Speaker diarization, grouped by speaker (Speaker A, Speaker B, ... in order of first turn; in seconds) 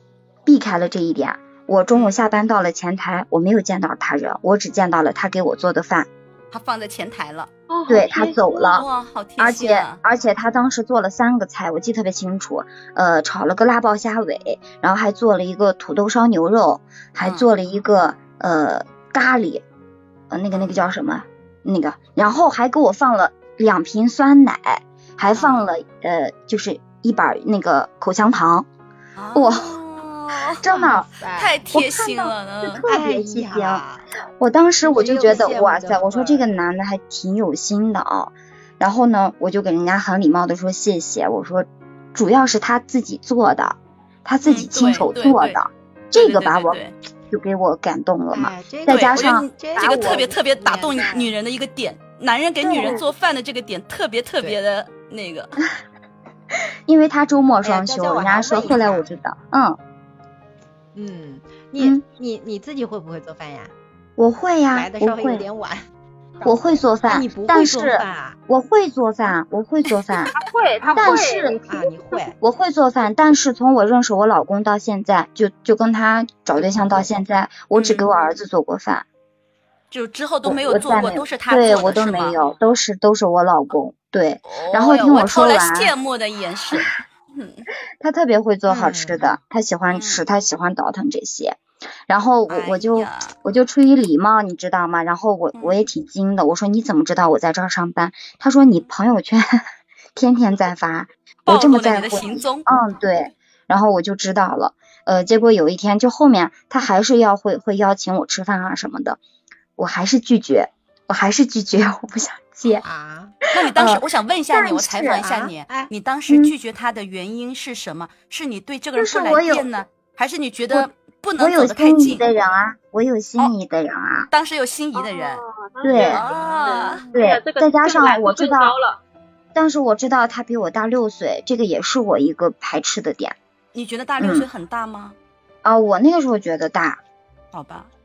Speaker A: 0.4-6.1, 7.9-8.8, 9.4-19.6, 20.3-28.7, 29.3-29.7, 30.6-31.1, 31.7-33.8, 34.4-50.0, 52.6-53.0, 56.9-59.8, 64.2-65.5, 66.4-70.3, 70.9-71.6, 72.4-79.0, 80.4-85.9, 88.0-99.6, 100.1-109.2, 109.8-112.8, 113.7-115.5, 116.3-116.5, 119.0-119.7, 120.7-124.3, 125.8-126.2, 127.1-128.7, 129.5-133.4, 134.2-134.5, 135.6-137.0
Speaker B: 6.5-7.5, 8.7-10.0, 17.2-17.5, 25.3-25.7, 29.1-30.6, 31.3-32.9, 44.4-45.6, 46.1-46.9, 48.9-55.6, 77.7-78.1, 79.9-82.4, 84.5-87.7, 89.9-90.2, 92.5-93.3, 95.5-95.8, 101.5-102.7, 113.5-122.2, 124.3-125.4, 126.0-127.0, 133.7-135.2, 137.5-137.9
Speaker C: 7.7-8.8, 70.3-72.2, 124.9-129.0
Speaker D: 30.8-31.5, 32.8-34.0, 34.8-36.4, 48.3-51.3, 57.6-59.0, 60.9-63.7, 64.7-65.8, 66.4-68.4, 70.8-72.3, 76.6-77.1, 88.7-89.2, 112.8-113.3, 115.2-115.9